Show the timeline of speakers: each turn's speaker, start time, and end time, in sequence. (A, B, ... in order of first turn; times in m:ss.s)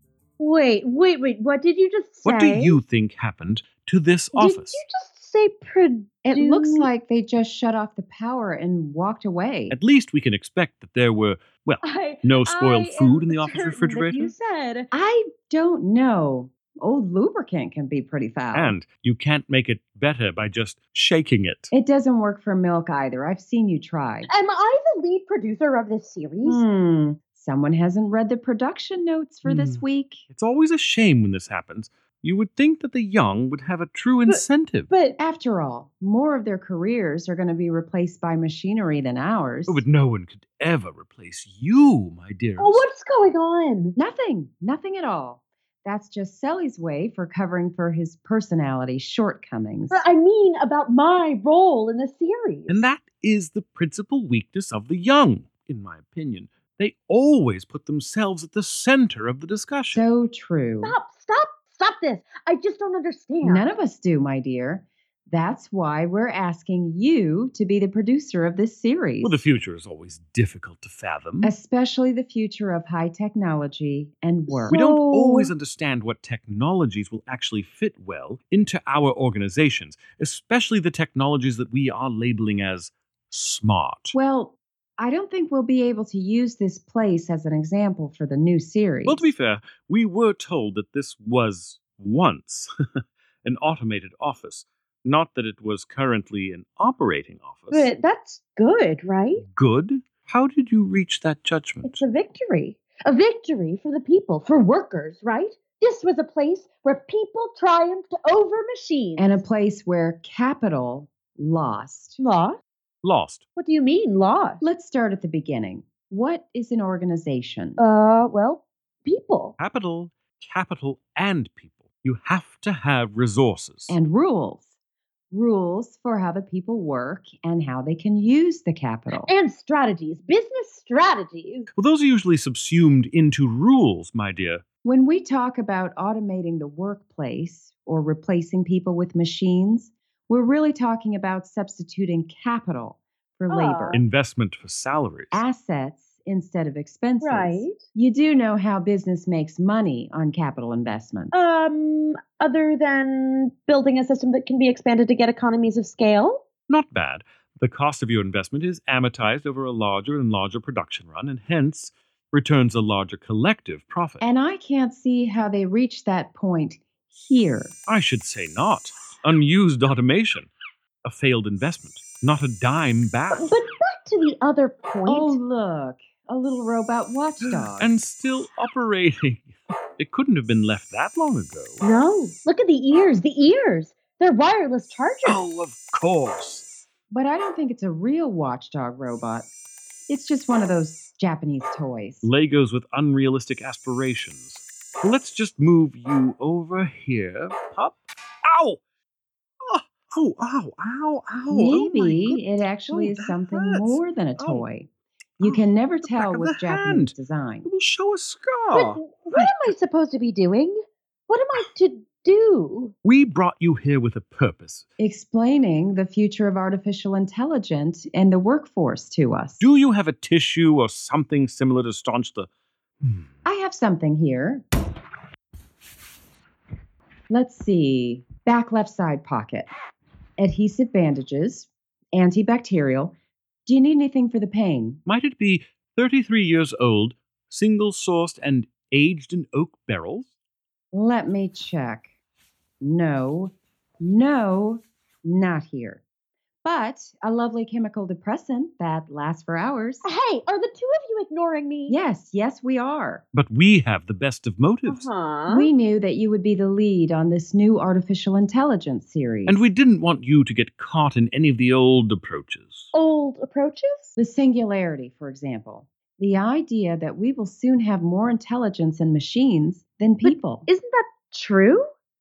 0:00.4-0:02.8 A
0:02.2-0:04.8 B
0:04.4-0:06.9 A
0:06.2-0:09.8 C
0:09.7-0:14.3 B
0:11.8-0:14.9 A
0:14.9-0:18.8 C
0:18.5-0:21.7 B
0:21.7-0:24.3 C
0:24.3-0:26.6 A
0:26.4-0:30.2 C
0:29.4-0:34.9 B
0:34.3-0:35.2 A
0:35.2-0:39.8 C
0:39.7-0:42.9 B
0:42.6-0:44.0 A
0:44.0-0:50.0 C
0:49.9-0:52.8 A
0:52.7-1:00.0 B
0:59.9-1:01.0 C
1:00.8-1:03.7 A
1:03.4-1:09.4 C
1:09.2-1:11.5 B
1:11.4-1:14.8 C
1:14.5-1:15.5 A
1:14.7-1:24.1 B
1:24.1-1:29.3 C
1:29.0-1:32.7 B
1:33.4-1:37.9 B
1:37.7-1:39.4 A
1:39.4-1:42.0 B
1:41.8-1:49.4 A
1:49.2-1:52.2 C
1:52.2-1:52.6 A
1:53.0-1:53.4 B
1:53.6-1:54.6 A
1:54.6-1:57.8 C
1:57.8-1:59.6 A
1:59.6-2:04.0 B
2:03.9-2:04.7 C
2:05.3-2:09.3 C
2:09.1-2:11.7 A
2:11.8-2:14.6 B
2:14.8-2:24.0 C
2:23.5-2:24.0 A
2:23.9-2:25.4 B
2:25.3-2:31.3 C
2:27.2-2:27.8 A
2:31.3-2:36.4 A
2:36.7-2:44.2 B
2:44.2-2:47.7 C
2:47.9-2:50.5 B
2:51.0-2:53.6 B
2:53.3-2:55.4 A
2:55.1-2:57.9 C
2:57.4-2:59.5 B
3:00.0-3:01.8 B
3:01.8-3:05.4 A
3:05.2-3:06.7 B
3:07.1-3:09.5 C
3:10.1-3:12.3 C
3:12.2-3:18.8 B
3:19.6-3:24.7 B
3:21.5-3:27.7 C
3:25.4-3:29.8 B
3:28.7-3:30.8 A
3:31.3-3:32.9 A
3:33.0-3:34.9 B
3:35.0-3:39.6 C
3:39.6-3:42.5 B
3:43.0-3:43.3 B
3:43.4-3:44.6 C
3:47.3-3:49.7 C
3:50.4-3:53.1 C
3:53.7-3:55.0 C
3:55.1-4:00.3 B
4:00.9-4:02.1 C
4:02.8-4:06.0 C
4:06.6-4:10.1 C
4:10.0-4:12.0 A
4:11.9-4:13.2 C
4:13.3-4:15.1 B
4:14.9-4:15.7 A
4:15.5-4:19.7 C
4:19.5-4:22.9 B
4:22.9-4:24.1 A
4:24.2-4:30.7 C
4:30.2-4:31.8 A